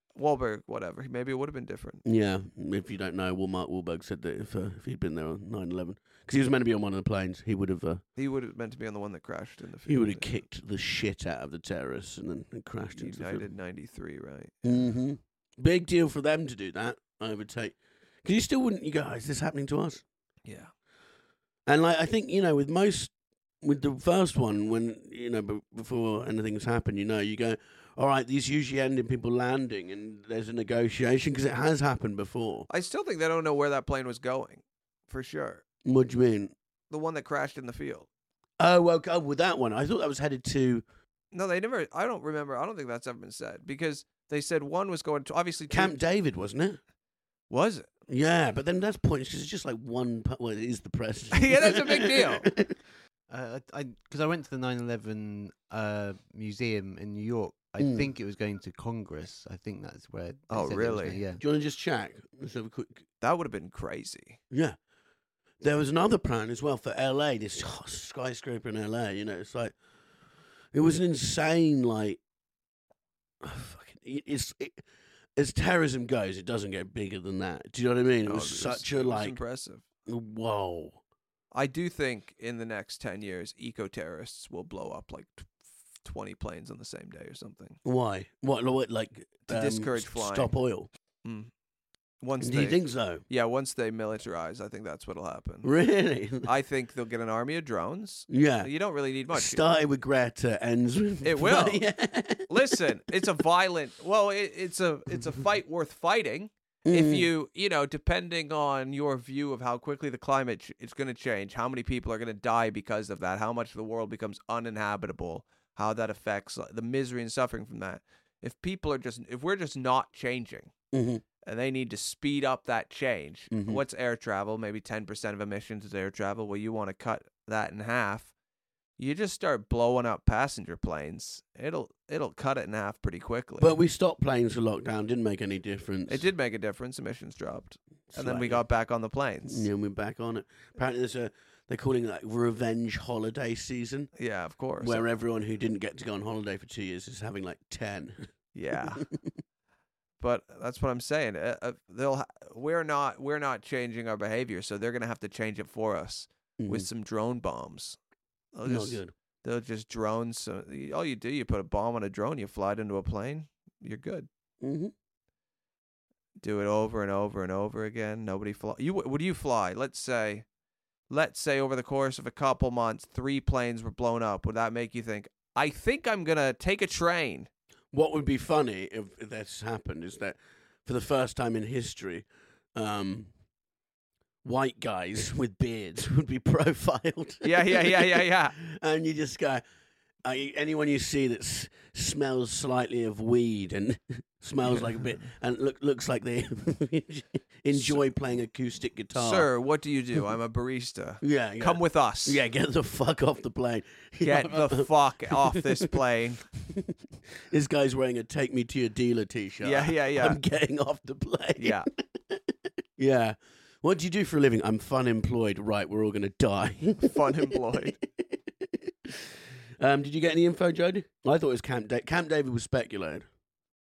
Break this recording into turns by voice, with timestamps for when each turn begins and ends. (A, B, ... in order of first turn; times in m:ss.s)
0:00.2-0:02.0 A
0:02.0-0:08.0 B
0:08.2-0:10.3 A
0:09.8-0:13.5 B
0:13.0-0:14.7 A
0:14.6-0:20.0 B
0:20.4-0:20.7 A
0:21.6-0:32.7 B
0:32.7-0:35.6 A
0:35.8-0:36.5 B
0:36.9-0:38.1 A
0:38.6-0:40.8 B
0:41.3-0:45.9 A
0:45.7-0:46.8 B
0:47.5-0:47.9 A
0:48.1-0:52.7 B
0:51.3-0:52.5 A
0:53.3-1:01.4 C
0:57.8-0:58.1 B
1:00.5-1:01.2 A
1:01.4-1:03.0 B
1:03.2-1:04.4 A
1:04.5-1:04.8 B
1:05.6-1:09.7 B
1:10.7-1:12.2 B
1:13.4-1:14.8 B
1:15.4-1:19.4 B
1:18.2-1:19.8 A
1:20.1-1:21.0 B
1:21.5-1:27.8 A
1:27.8-1:30.9 B
1:29.5-1:30.5 A
1:31.2-1:31.5 A
1:32.2-1:35.7 A
1:32.4-1:33.2 B
1:35.6-1:36.5 B
1:36.4-1:39.6 A
1:38.3-1:38.7 B
1:39.3-1:42.8 B
1:41.2-1:41.8 A
1:42.5-2:00.7 A
1:46.8-1:47.3 B
2:00.9-2:01.2 B
2:01.4-2:08.3 A
2:03.5-2:03.8 B
2:09.0-2:13.7 A
2:13.6-2:16.2 B
2:16.1-2:19.6 A
2:18.1-2:18.6 B
2:19.4-2:24.1 B
2:24.2-2:25.0 A
2:24.8-2:28.3 B
2:28.5-2:29.1 A
2:30.2-2:38.0 A
2:36.6-2:36.9 B
2:38.5-2:44.3 A
2:38.6-2:39.1 B
2:44.6-2:44.9 B
2:46.4-2:50.4 A
2:51.1-2:57.5 A
2:57.9-3:03.3 B
3:04.4-3:09.6 B
3:07.4-3:08.6 A
3:10.2-3:19.5 B
3:14.7-3:15.0 A
3:17.7-3:18.0 A
3:19.1-3:22.4 A
3:21.2-3:25.9 B
3:24.2-3:26.4 A
3:27.5-3:31.8 B
3:29.6-3:30.4 A
3:31.6-3:31.9 A
3:33.0-3:43.2 B
3:37.0-3:38.0 A